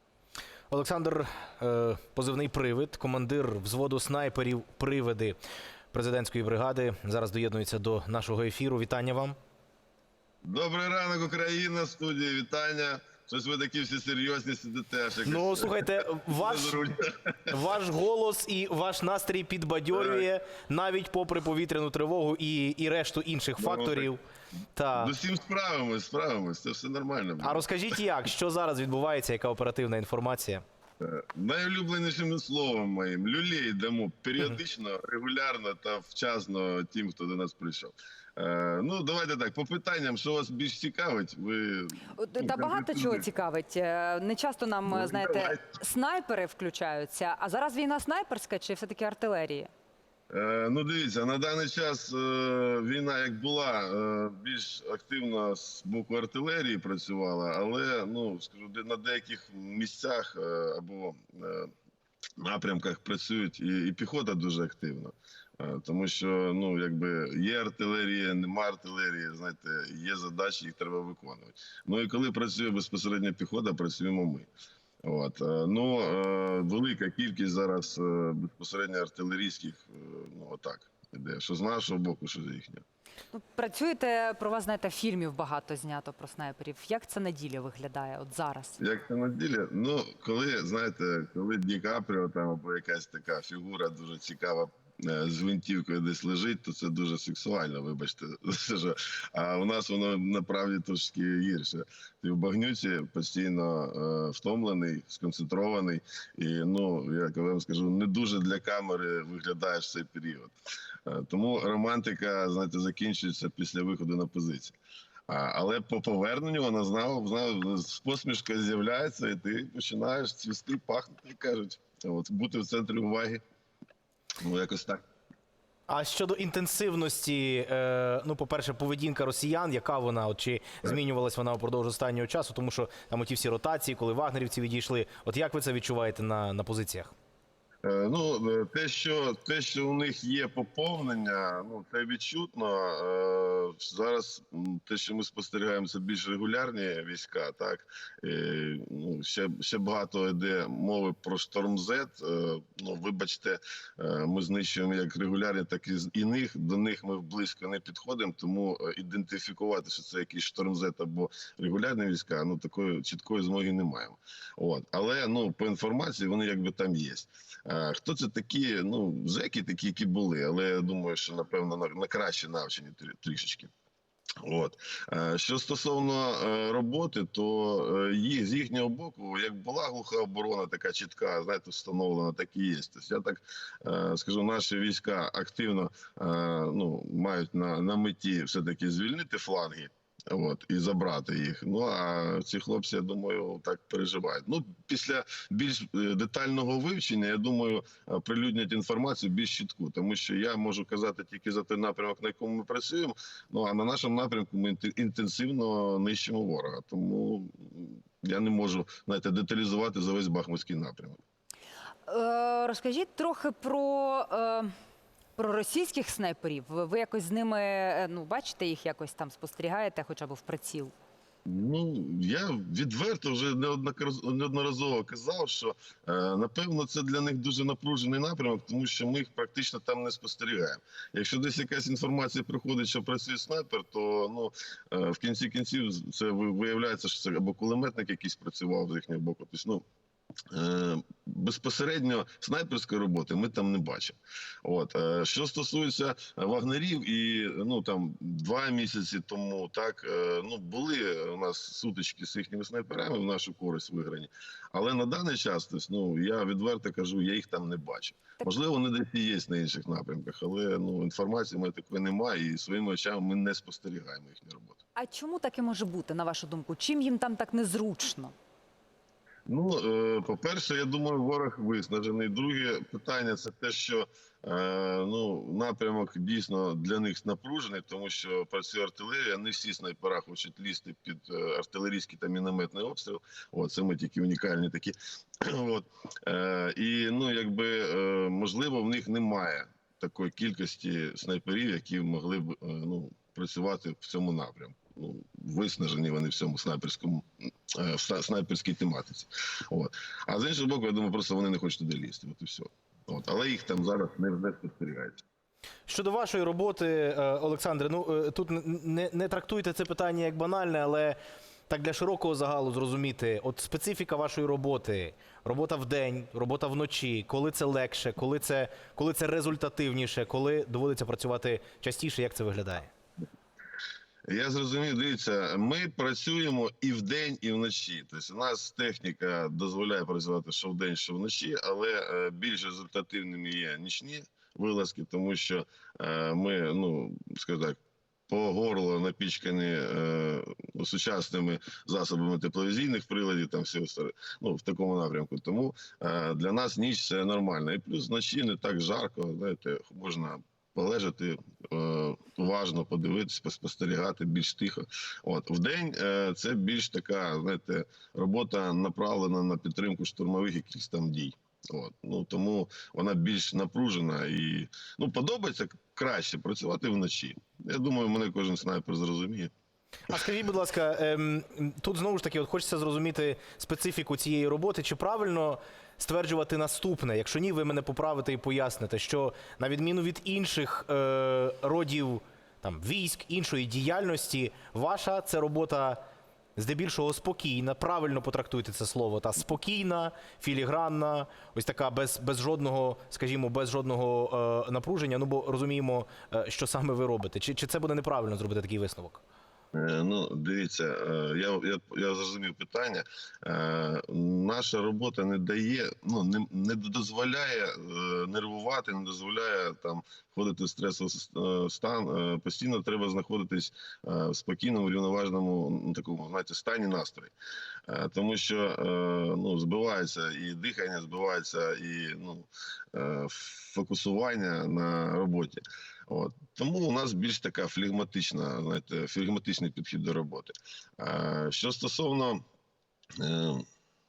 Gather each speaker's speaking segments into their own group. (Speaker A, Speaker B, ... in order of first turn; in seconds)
Speaker A: 0.7-5.4, 5.9-9.3, 15.2-16.8, 17.5-24.2, 24.8-25.1, 27.4-30.6, 125.9-137.1, 305.9-311.2, 311.7-322.9, 370.1-386.0, 386.6-399.2
Speaker B: 10.4-17.6, 19.9-20.2, 23.6-24.1, 24.9-27.7, 31.0-43.3, 44.9-45.6, 50.3-61.7, 62.4-74.5, 75.0-82.8, 88.8-110.5, 111.0-114.8, 115.3-123.4, 124.4-125.0, 137.8-173.7, 174.4-211.2, 221.4-239.8, 240.5-264.8, 269.5-305.2, 324.3-337.8, 338.3-369.5, 399.7-417.3, 417.9-432.4, 433.2-433.6
Speaker C: 42.1-49.7, 83.3-88.8, 212.1-214.7, 215.4-220.9, 264.9-268.3